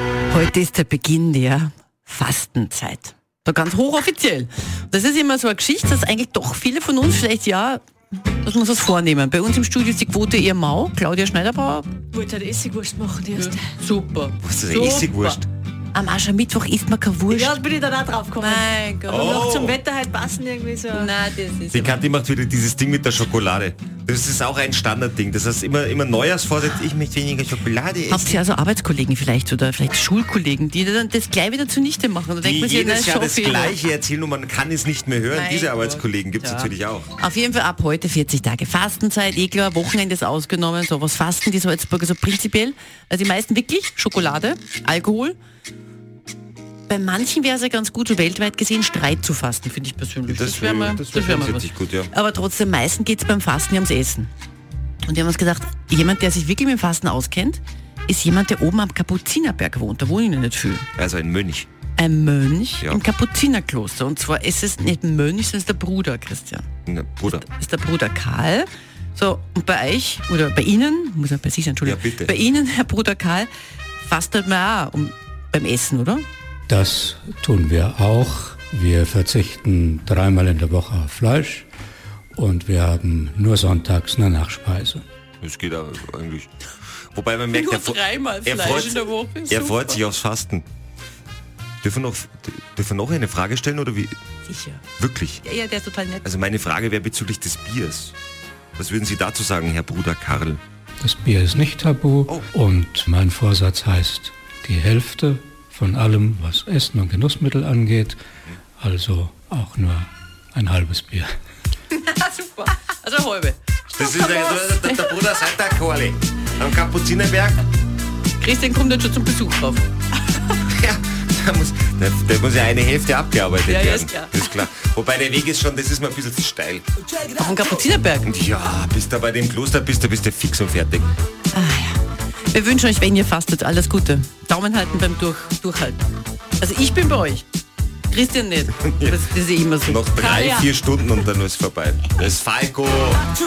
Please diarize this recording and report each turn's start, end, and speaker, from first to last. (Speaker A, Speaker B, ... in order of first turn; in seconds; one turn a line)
Speaker A: 0.3-7.8
Speaker A: 8.4-11.9
Speaker B: 12.1-13.7
Speaker A: 13.3-17.6
Speaker C: 14.4-15.4
Speaker B: 17.3-21.1
Speaker A: 18.3-19.4
Speaker C: 19.1-19.8
Speaker A: 20.9-21.9
Speaker C: 21.7-28.4
Speaker A: 28.1-33.8
Speaker C: 32.4-37.1
Speaker A: 35.3-45.4
Speaker A: 46.9-54.3
Speaker C: 50.3-52.1
Speaker A: 55.0-60.9
Speaker C: 61.0-61.7
Speaker A: 62.0-66.7
Speaker C: 66.8-67.4
Speaker A: 67.3-73.5
Speaker C: 71.8-72.4
Speaker A: 74.0-76.2
Speaker D: 76.7-81.7
Speaker D: 82.3-85.0
Speaker C: 85.4-86.5
Speaker C: 87.1-90.7
Speaker A: 87.5-90.0
Speaker C: 91.8-94.1
Speaker A: 94.5-94.8
Speaker C: 95.0-95.4
Speaker A: 95.4-96.2
Speaker C: 96.2-98.1
Speaker C: 98.8-100.6
Speaker D: 101.0-108.2
Speaker D: 108.8-111.3
Speaker A: 111.9-115.1
Speaker C: 113.9-117.6
Speaker A: 118.4-119.8
Speaker C: 120.6-126.8
Speaker A: 123.7-124.5
Speaker A: 127.2-128.3
Speaker C: 128.2-131.1
Speaker A: 131.5-136.0
Speaker A: 136.6-137.4
Speaker A: 138.1-140.6
Speaker C: 138.8-139.2
Speaker C: 139.8-143.3